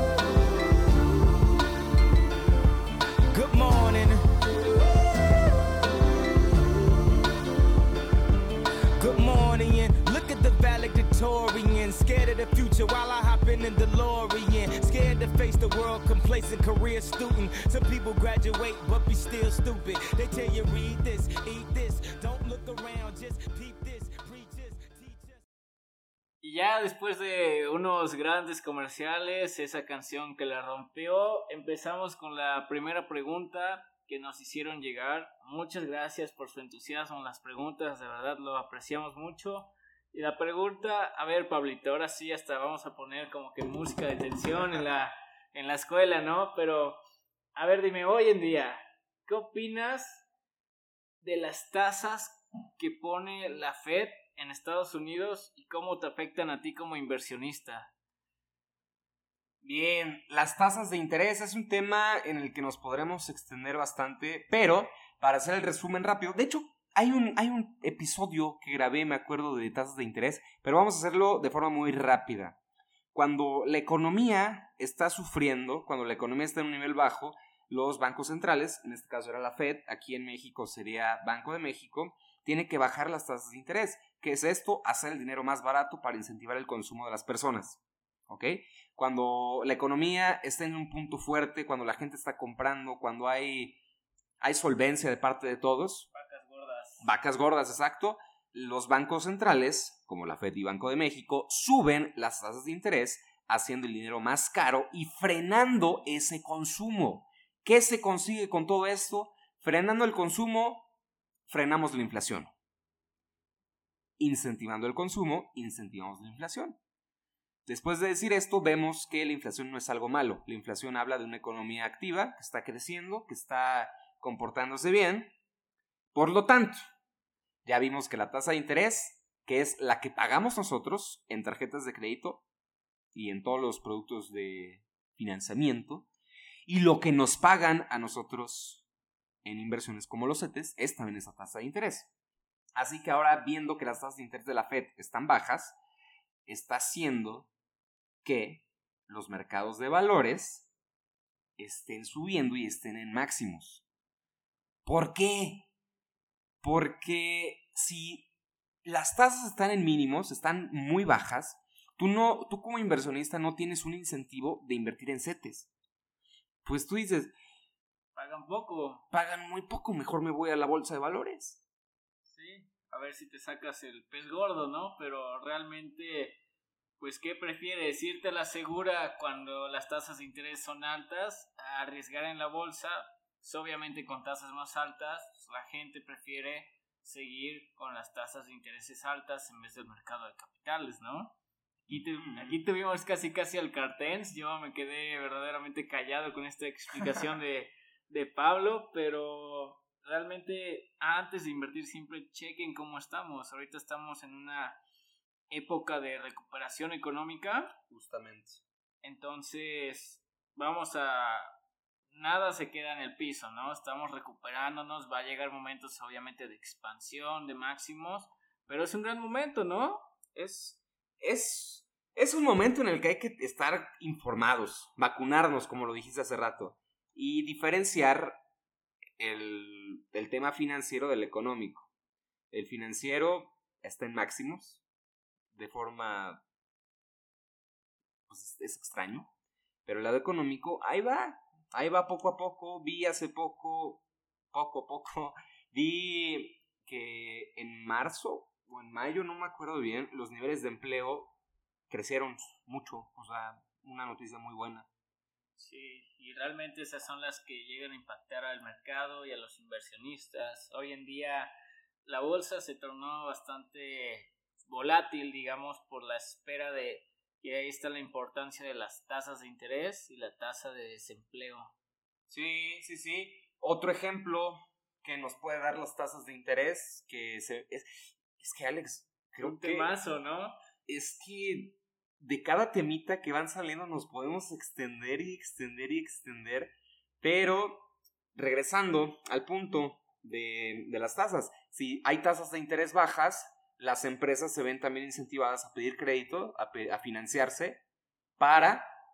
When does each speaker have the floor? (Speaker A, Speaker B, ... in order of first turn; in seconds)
Speaker A: 3.3-4.3, 9.0-25.4
Speaker B: 26.4-47.0, 47.5-50.3, 51.2-57.9, 96.1-97.1, 168.2-169.1, 172.3-176.4, 177.0-191.4, 191.9-204.8, 205.5-207.7, 209.0-211.5, 212.1-220.1, 255.6-261.5, 262.1-271.7, 279.4-280.6
Speaker C: 59.6-72.6, 73.1-93.8, 94.4-96.1, 97.0-110.9, 111.5-112.5, 114.2-116.8, 117.7-125.3, 126.1-126.8, 127.7-132.4, 133.1-136.1, 136.7-138.8, 139.4-142.1, 142.8-145.8, 146.5-147.5, 148.2-150.7, 151.6-153.8, 154.8-155.7, 156.6-158.3, 158.8-165.7, 166.6-167.3, 169.1-171.6, 191.9-192.6, 207.9-208.6, 220.3-228.4, 229.2-231.9, 232.5-234.8, 235.5-236.4, 238.3-239.3, 239.9-251.3, 251.9-254.9, 272.3-279.9, 280.9-297.8, 298.4-298.9